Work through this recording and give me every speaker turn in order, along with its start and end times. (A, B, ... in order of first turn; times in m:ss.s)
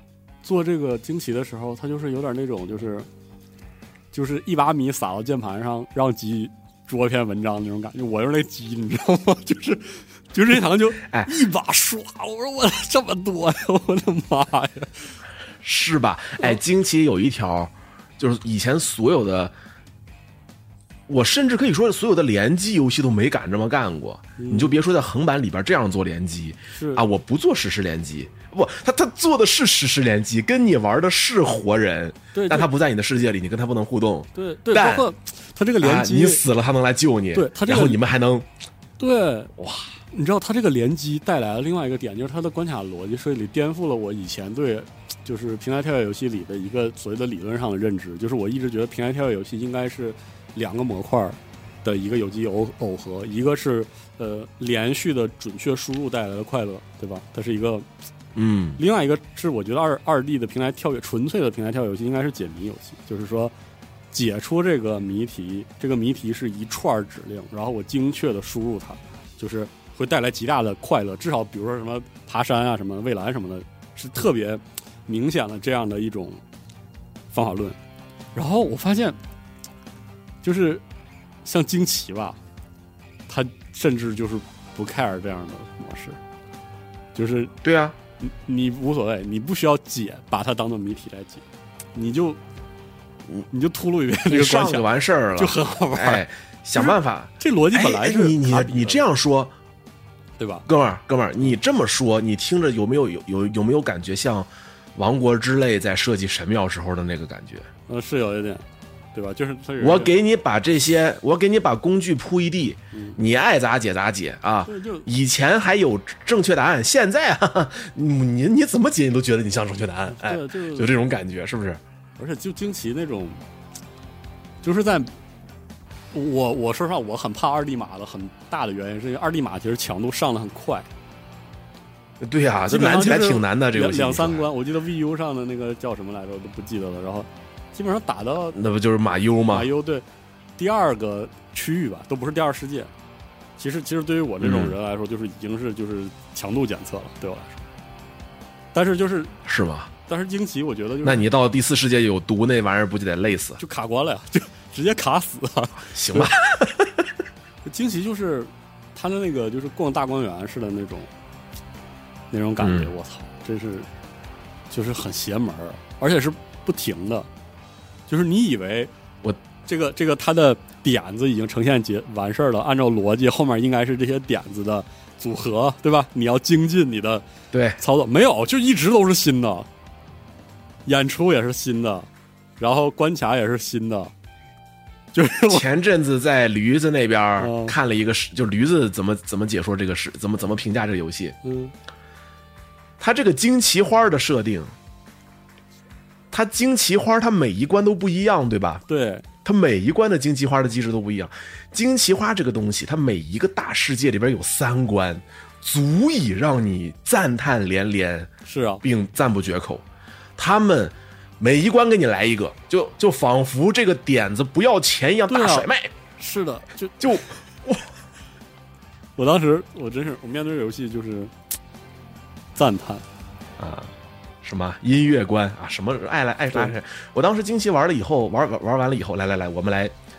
0:00.4-0:03.1 A
0:04.1-0:15.1 A
0:11.0-0:11.3 B
0:15.6-0:19.5 B
0:21.1-0:35.1 B
0:24.4-0:24.8 A
0:26.7-0:27.0 A
0:32.3-0:32.7 A
0:34.3-0:36.4 A
0:35.8-0:38.5 B
0:37.3-0:38.0 A
0:39.0-0:39.5 A
0:39.6-0:39.9 B
0:40.1-0:57.8 A
0:58.3-0:58.8 B
0:58.8-1:03.5 A
1:04.1-1:16.4 A
1:17.3-1:17.8 A
1:18.3-1:19.2 A
1:20.4-1:20.8 A
1:21.4-1:22.4 A
1:23.3-1:26.2 A
1:27.1-1:27.5 A
1:27.6-1:28.0 B
1:28.2-1:31.4 A
1:31.9-1:32.4 A
1:33.5-1:39.0 A
1:34.3-1:39.5 B
1:40.4-1:40.7 A
1:40.6-1:47.7 B
1:47.9-1:50.2 A
1:49.8-2:01.8 B
1:52.9-1:53.2 A
1:54.6-1:55.1 A
2:00.1-2:00.9 A
2:02.2-2:03.4 A
2:04.6-2:05.1 A
2:06.1-2:10.9 A
2:12.2-2:14.5 B
2:12.7-2:18.6 A
2:18.5-2:19.7 B
2:19.5-2:20.0 A
2:20.6-2:22.9 A
2:23.6-2:27.6 A
2:24.4-2:24.8 B
2:28.7-2:29.4 A
2:29.4-2:29.9 B
2:30.1-2:31.2 A
2:31.0-2:33.6 B
2:33.6-2:36.3 A
2:35.9-2:37.0 B
2:37.6-2:41.1 A
2:42.3-2:43.9 A
2:42.6-2:42.9 B
2:44.7-2:47.3 A
2:48.1-2:48.9 A
2:49.6-2:57.2 A
2:57.5-2:57.8 B
2:57.8-2:59.7 A
3:00.8-3:02.1 A
3:02.6-3:04.1 A
3:05.1-3:05.6 A
3:05.5-3:11.4 B
3:07.4-3:07.8 A
3:11.4-3:11.7 A
3:13.0-3:14.7 B
3:16.3-3:18.8 B
3:18.9-3:19.2 A
3:19.4-3:28.3 B
3:28.4-3:28.8 A
3:28.8-3:29.8 B
3:30.4-3:35.9 B
3:35.3-3:37.0 A
3:37.0-3:37.8 B
3:39.2-3:41.3 A
3:42.5-3:43.0 A
3:43.6-3:43.9 B
3:44.4-3:49.9 B